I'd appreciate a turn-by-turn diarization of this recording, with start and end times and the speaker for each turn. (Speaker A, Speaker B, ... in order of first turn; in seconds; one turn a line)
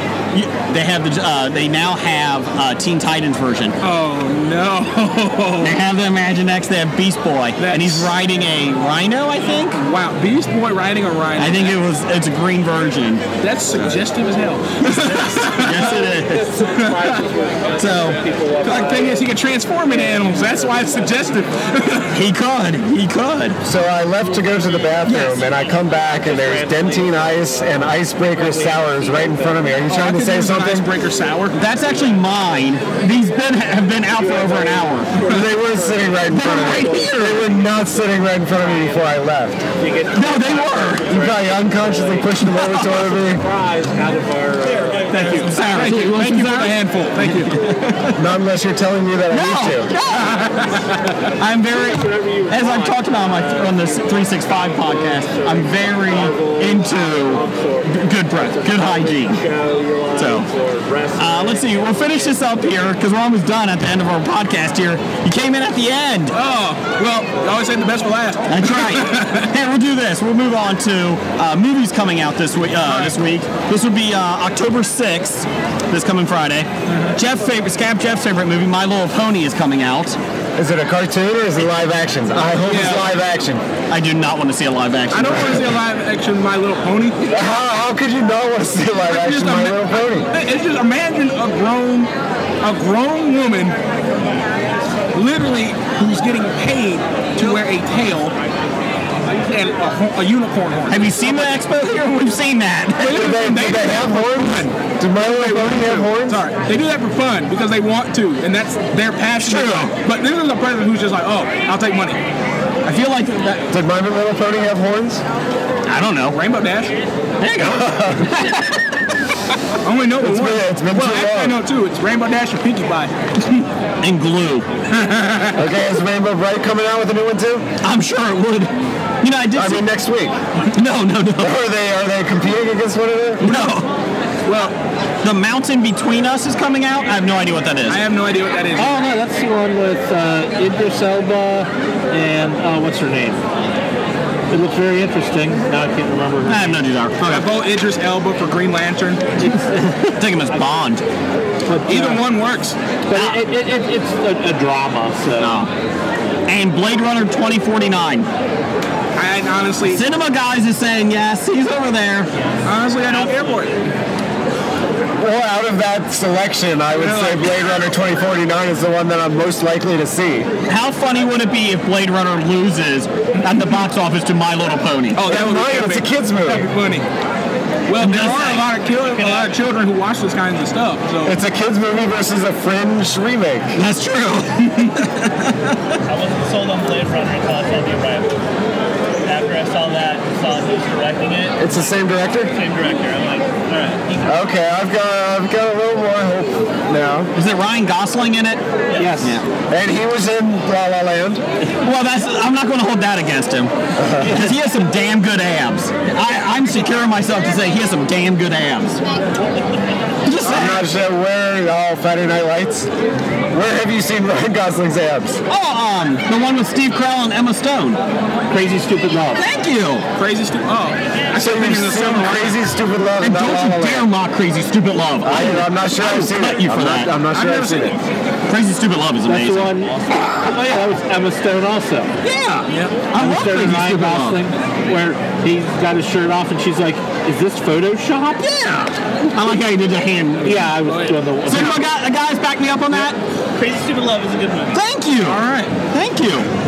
Speaker A: 0.3-3.8
Speaker B: 3.8-5.8
Speaker A: 5.6-9.8
Speaker B: 7.6-8.1
Speaker B: 9.8-11.8
Speaker A: 11.4-13.2
Speaker B: 13.4-15.9
Speaker A: 14.8-16.6
Speaker C: 15.2-19.2
Speaker B: 16.7-17.1
Speaker A: 17.8-18.2
Speaker B: 18.6-22.1
Speaker A: 22.1-23.6
Speaker D: 23.6-30.9
Speaker A: 25.0-25.5
Speaker C: 26.2-27.8
Speaker C: 28.3-29.5
Speaker B: 29.9-31.6
Speaker A: 31.5-35.1
Speaker C: 34.1-37.1
Speaker D: 35.2-39.6
Speaker A: 36.3-37.6
Speaker C: 39.8-42.5
Speaker A: 40.1-41.2
Speaker D: 41.1-43.4
Speaker A: 42.5-43.0
Speaker C: 43.1-45.5
Speaker A: 45.1-47.5
Speaker B: 45.1-48.1
Speaker D: 48.1-49.9
Speaker A: 49.3-50.4
Speaker B: 50.3-50.9
Speaker A: 51.4-59.4
Speaker C: 51.7-62.3
Speaker A: 60.1-60.5
Speaker A: 61.2-66.4
Speaker B: 66.3-69.5
Speaker A: 68.5-80.2
Speaker B: 72.8-73.1
Speaker B: 76.9-77.2
Speaker D: 80.6-83.6
Speaker B: 82.6-83.1
Speaker A: 83.9-85.7
Speaker B: 85.1-87.3
Speaker D: 87.3-90.3
Speaker B: 89.1-92.1
Speaker B: 92.6-93.8
Speaker B: 95.1-98.3
Speaker B: 99.3-101.5
Speaker A: 100.9-103.4
Speaker B: 103.0-112.2
Speaker D: 103.0-106.4
Speaker A: 109.4-109.9
Speaker A: 112.8-113.7
Speaker D: 113.7-115.2
Speaker A: 115.8-116.4
Speaker B: 116.3-117.0
Speaker A: 117.4-118.8
Speaker D: 117.6-118.3
Speaker B: 119.8-123.1
Speaker D: 120.2-121.6
Speaker A: 124.0-124.7
Speaker B: 124.9-125.5
Speaker D: 125.5-127.7
Speaker A: 127.8-129.9
Speaker D: 129.5-130.3
Speaker A: 130.7-131.6
Speaker D: 131.4-133.4
Speaker A: 133.4-133.9
Speaker A: 134.5-138.0
Speaker B: 137.9-139.0
Speaker C: 138.8-143.4
Speaker C: 144.5-146.8
Speaker A: 146.4-147.5
Speaker B: 147.2-149.3
Speaker C: 149.4-150.5
Speaker A: 150.2-151.0
Speaker C: 151.7-152.3
Speaker B: 151.9-152.8
Speaker C: 153.1-155.6
Speaker A: 153.1-153.4
Speaker A: 155.4-155.7
Speaker A: 156.5-158.3
Speaker B: 159.2-160.0
Speaker A: 159.9-162.3
Speaker B: 162.6-163.8
Speaker D: 165.2-170.5
Speaker B: 166.9-167.5
Speaker A: 170.7-175.2
Speaker B: 175.1-177.1
Speaker D: 175.2-176.7
Speaker B: 177.9-181.4
Speaker A: 178.0-179.4
Speaker D: 181.2-183.7
Speaker A: 183.7-185.8
Speaker E: 186.1-188.4
Speaker E: 189.2-191.6
Speaker D: 191.6-192.5
Speaker E: 192.4-194.3
Speaker D: 194.2-197.3
Speaker A: 197.3-198.6
Speaker C: 198.9-199.4
Speaker A: 199.2-199.4
Speaker D: 199.7-201.4
Speaker A: 201.7-209.0
Speaker D: 204.0-204.4
Speaker A: 210.2-210.9
Speaker D: 210.4-212.9
Speaker D: 213.5-215.4
Speaker A: 215.5-218.0
Speaker C: 218.5-219.4
Speaker A: 219.3-220.1
Speaker B: 220.2-222.5
Speaker D: 221.3-224.1
Speaker A: 221.4-222.5
Speaker A: 223.2-227.2
Speaker D: 225.2-228.0
Speaker B: 227.3-228.0
Speaker A: 228.5-229.7
Speaker C: 229.2-232.1
Speaker A: 232.2-234.4
Speaker B: 232.7-233.0
Speaker C: 233.1-238.4
Speaker A: 238.4-243.2
Speaker C: 240.4-241.8
Speaker E: 243.5-244.8
Speaker A: 244.7-246.5
Speaker B: 245.2-245.7